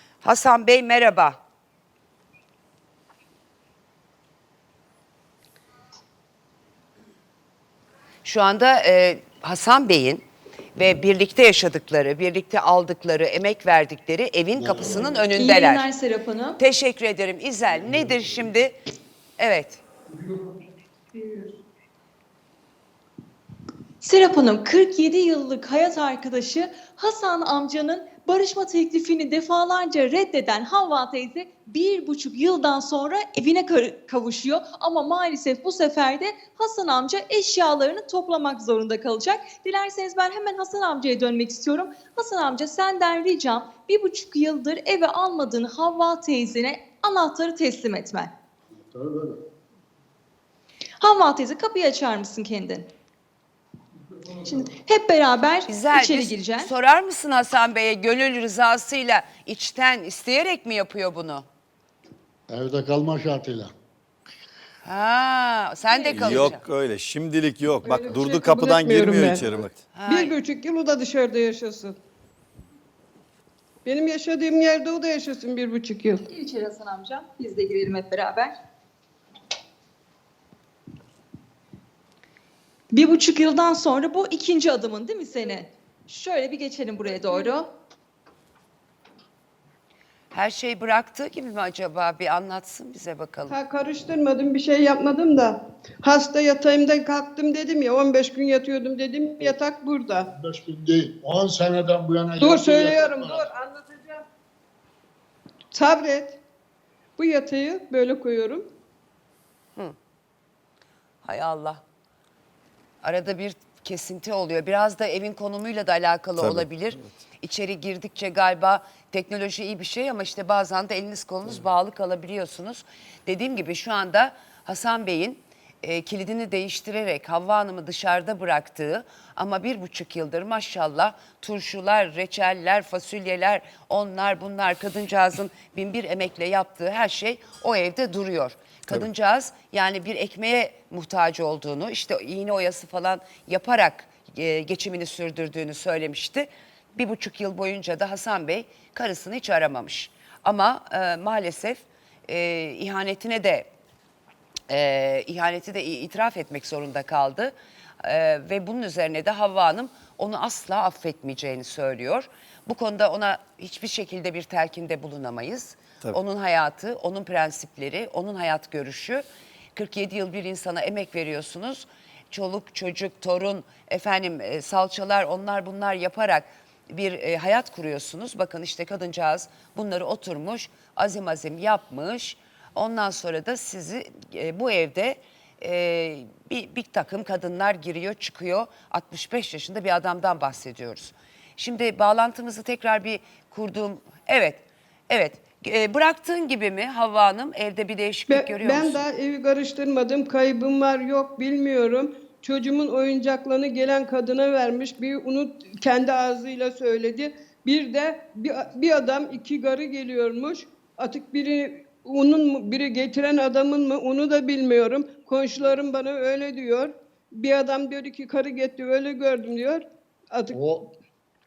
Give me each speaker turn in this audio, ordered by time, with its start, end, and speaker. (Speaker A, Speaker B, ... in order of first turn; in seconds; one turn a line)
Speaker A: 0.2-1.4
Speaker A: 8.2-15.8
Speaker B: 14.6-15.2
Speaker C: 15.3-16.6
Speaker A: 16.6-18.8
Speaker A: 19.4-19.8
Speaker C: 24.0-48.3
Speaker B: 48.7-49.4
Speaker C: 51.0-52.9
Speaker C: 54.3-56.7
Speaker A: 55.7-61.5
Speaker B: 62.5-63.7
Speaker A: 64.8-66.6
Speaker C: 65.9-66.5
Speaker D: 66.1-69.8
Speaker E: 67.8-72.0
Speaker A: 69.9-70.3
Speaker E: 73.8-76.2
Speaker C: 76.2-78.5
Speaker C: 82.9-87.7
Speaker E: 87.0-87.5
Speaker A: 90.3-93.6
Speaker E: 93.5-100.3
Speaker B: 100.3-103.4
Speaker E: 102.4-104.2
Speaker E: 105.7-106.4
Speaker E: 107.2-108.6
Speaker A: 111.2-111.8
Speaker A: 113.0-153.7
Speaker D: 116.4-117.1
Speaker A: 154.7-199.0
Speaker E: 198.3-220.6
Speaker B: 220.5-220.9